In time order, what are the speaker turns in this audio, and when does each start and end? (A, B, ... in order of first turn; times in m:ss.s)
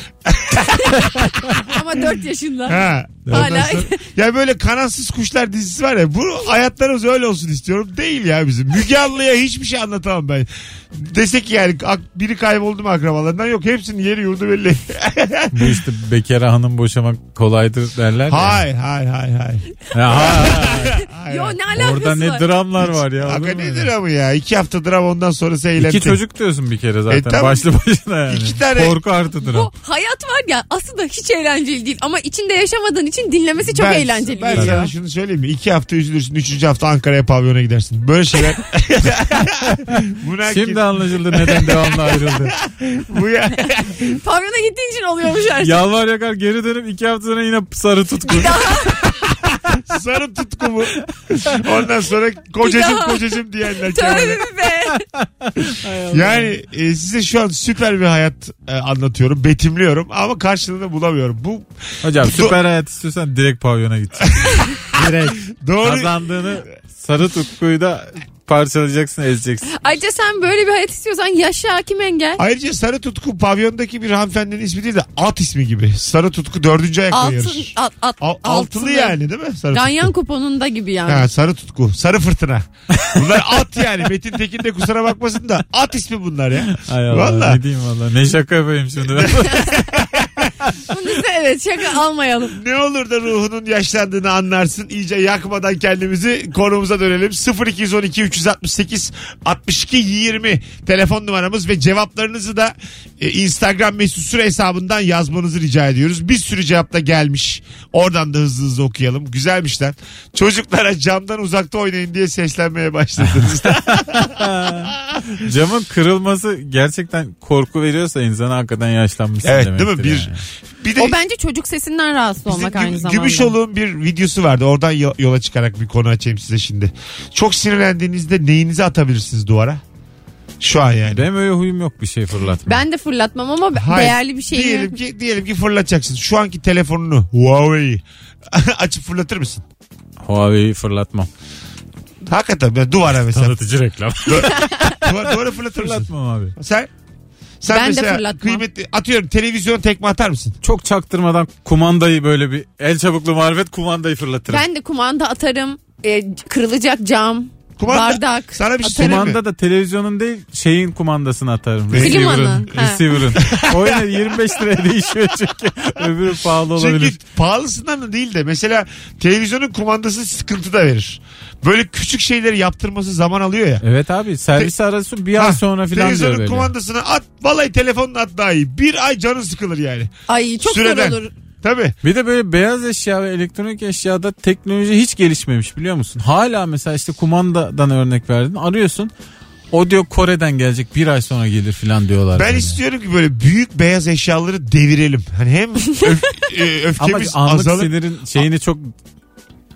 0:00.2-0:01.8 A
0:01.6-0:04.0 B
0:02.7-0:15.8 A
0:03.3-0:03.7 C
0:15.5-0:18.6 C
0:18.3-0:21.6 A
0:19.9-0:21.0 C
0:20.2-0:22.5 B
0:21.7-0:23.9 C
0:22.8-0:26.2 A
0:25.8-0:29.7 C
0:27.1-0:27.7 A
0:28.3-0:29.0 A
0:29.4-0:34.9 B
0:33.6-0:44.2 A
0:34.5-0:34.8 C
0:39.8-0:42.6 C
0:44.1-0:45.8 B
0:45.6-0:48.9 C
0:48.3-0:49.2 B
0:49.3-0:54.5 A
0:52.6-0:53.2 B
0:53.9-0:55.0 B
0:54.9-0:56.5 C
0:55.6-1:01.7 A
1:02.0-1:09.7 C
1:02.2-1:02.6 A
1:04.3-1:06.1 A
1:09.7-1:12.4 B
1:12.4-1:20.1 A
1:17.1-1:19.2 B
1:19.7-1:21.3 B
1:21.1-1:27.6 A
1:26.7-1:29.9 C
1:29.0-1:30.5 A
1:29.4-1:29.8 B
1:30.9-1:32.6 B
1:32.5-1:55.3 A
1:53.2-2:00.4 C
1:59.4-2:01.2 A
2:01.0-2:03.5 B
2:02.4-2:09.8 A
2:10.6-2:11.3 A
2:11.1-2:12.8 C
2:12.7-2:15.0 B
2:13.8-2:19.6 A
2:20.2-2:21.3 C
2:22.3-2:23.6 A
2:23.2-2:26.6 C
2:24.2-2:26.9 A
2:24.5-2:24.9 B
2:27.6-2:30.6 A
2:27.7-2:28.6 B
2:30.6-2:34.7 C
2:34.5-2:39.3 B
2:37.8-2:39.4 A
2:38.8-2:47.2 C
2:41.9-2:42.4 A
2:42.0-2:43.1 B
2:43.3-2:44.3 A
2:46.8-2:53.8 A
2:53.8-2:56.7 C
2:55.4-3:00.1 A
3:00.3-3:01.3 B
3:00.6-3:02.0 A
3:02.0-3:09.1 C
3:09.7-3:12.8 C
3:12.4-3:17.9 A
3:17.0-3:18.9 C